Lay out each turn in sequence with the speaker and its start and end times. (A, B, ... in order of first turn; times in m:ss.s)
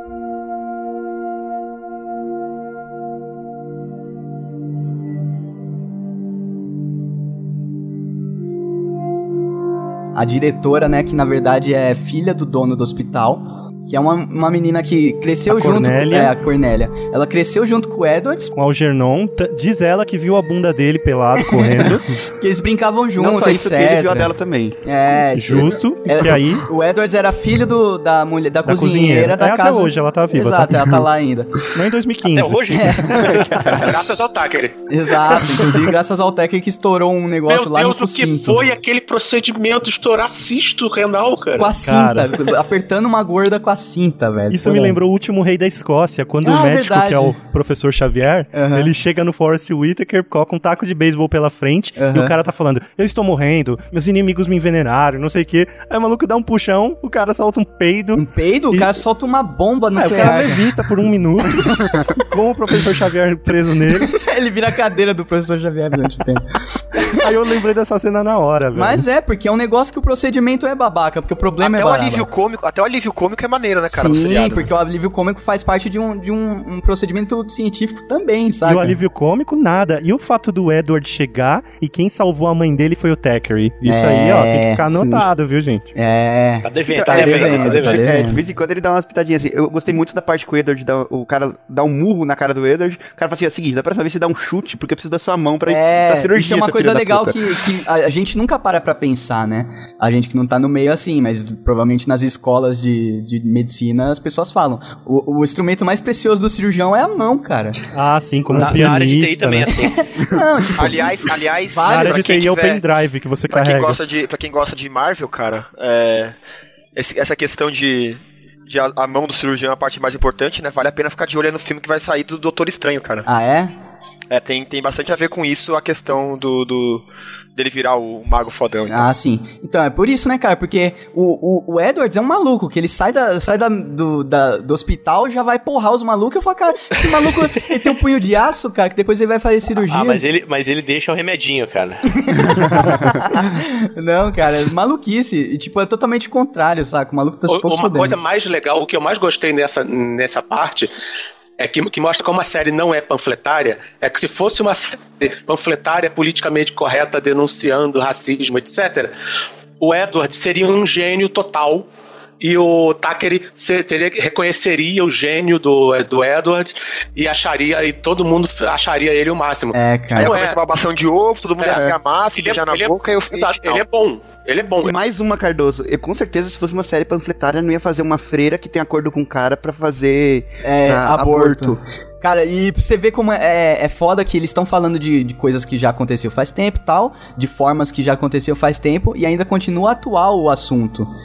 0:10.2-0:18.5 A
0:15.5-0:16.3 B
0:18.5-0:22.2 B
0:21.4-0:24.3 A
0:23.2-0:24.8 C
0:24.8-0:31.6 A
0:25.4-0:26.7 B
0:28.7-0:31.1 B
0:31.7-0:33.4 B
0:32.2-0:34.0 D
0:32.7-0:33.3 A
0:33.2-0:33.9 C
0:33.8-0:34.8 E
0:34.9-0:38.7 A
0:37.5-0:41.8 E
0:41.6-0:45.0 A
0:41.8-0:42.4 B
0:44.5-0:59.0 B
0:46.4-0:47.4 A
0:48.5-0:48.9 A
0:52.0-0:52.4 A
0:58.2-1:00.8 A
1:00.0-1:04.2 B
1:04.0-1:07.3 A
1:07.0-1:09.0 B
1:08.7-1:12.3 A
1:11.6-1:14.7 F
1:13.9-1:19.0 A
1:18.6-1:25.9 B
1:23.8-1:24.8 A
1:25.0-1:25.2 C
1:26.0-1:28.4 A
1:26.6-1:28.2 D
1:26.9-1:37.4 C
1:35.7-1:47.8 A
1:47.9-1:49.8 B
1:48.6-1:50.0 D
1:50.0-1:52.4 A
1:50.8-1:52.8 F
1:51.8-1:54.0 B
1:53.5-1:56.4 F
1:57.0-2:03.3 F
2:03.3-2:03.7 A
2:04.3-2:07.0 F
2:07.6-2:09.1 F
2:08.9-2:20.2 A
2:19.8-2:22.8 D
2:22.2-2:28.2 A
2:27.5-2:30.9 E
2:31.6-2:39.1 E
2:39.8-2:41.9 E
2:42.4-2:50.6 E
2:49.7-2:50.4 A
2:50.2-2:53.8 F
2:51.6-2:55.0 E
2:54.8-3:01.8 C
3:00.6-3:11.1 A